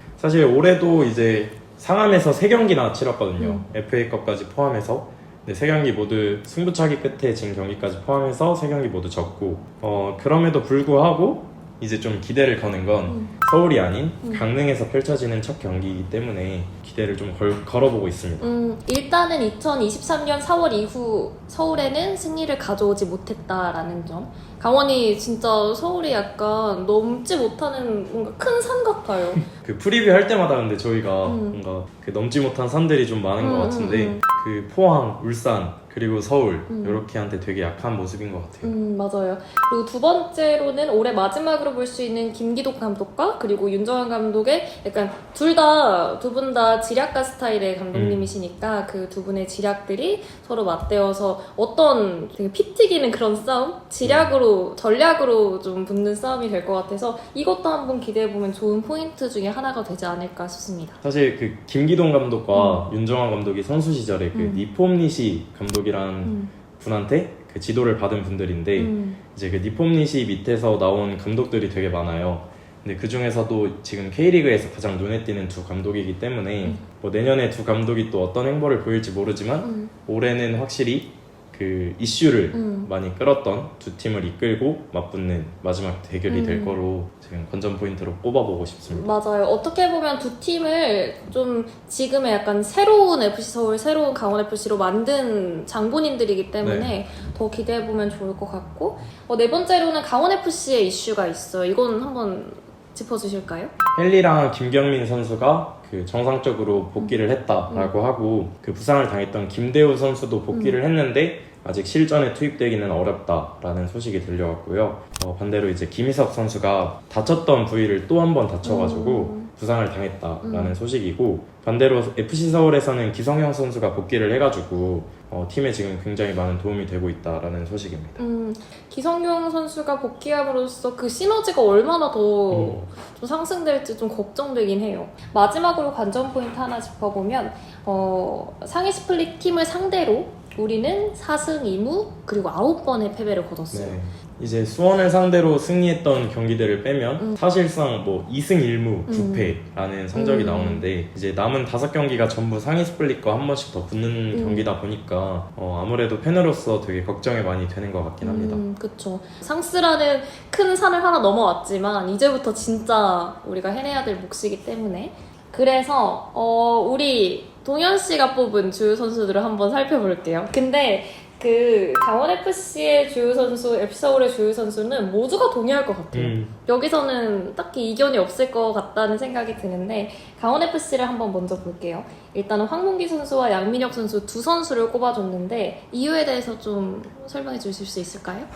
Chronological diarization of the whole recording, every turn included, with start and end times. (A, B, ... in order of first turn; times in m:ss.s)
0:00.2-0:18.5 A
0:03.4-0:03.6 B
0:13.1-0:13.4 B
0:18.4-0:29.4 B
0:29.6-0:38.8 A
0:31.2-0:31.6 B
0:33.4-0:34.2 B
0:36.7-0:37.0 B
0:38.6-1:01.0 B
0:47.9-0:48.3 A
0:54.0-0:54.3 A
1:01.0-1:29.1 A
1:02.5-1:02.9 B
1:04.3-1:04.6 B
1:06.2-1:06.5 B
1:08.8-1:09.2 B
1:19.6-1:19.9 B
1:22.5-1:22.9 B
1:26.3-1:26.8 B
1:28.9-1:43.7 B
1:36.6-1:36.9 A
1:44.0-2:08.2 A
1:47.7-1:48.0 B
1:50.5-1:50.8 B
1:58.6-1:59.5 B
2:00.4-2:00.8 B
2:08.2-2:24.0 B
2:12.5-2:12.9 A
2:23.7-2:38.6 A
2:29.1-2:29.6 B
2:30.1-2:30.9 B
2:34.3-2:34.7 B
2:38.2-3:08.5 B
2:56.1-2:56.5 A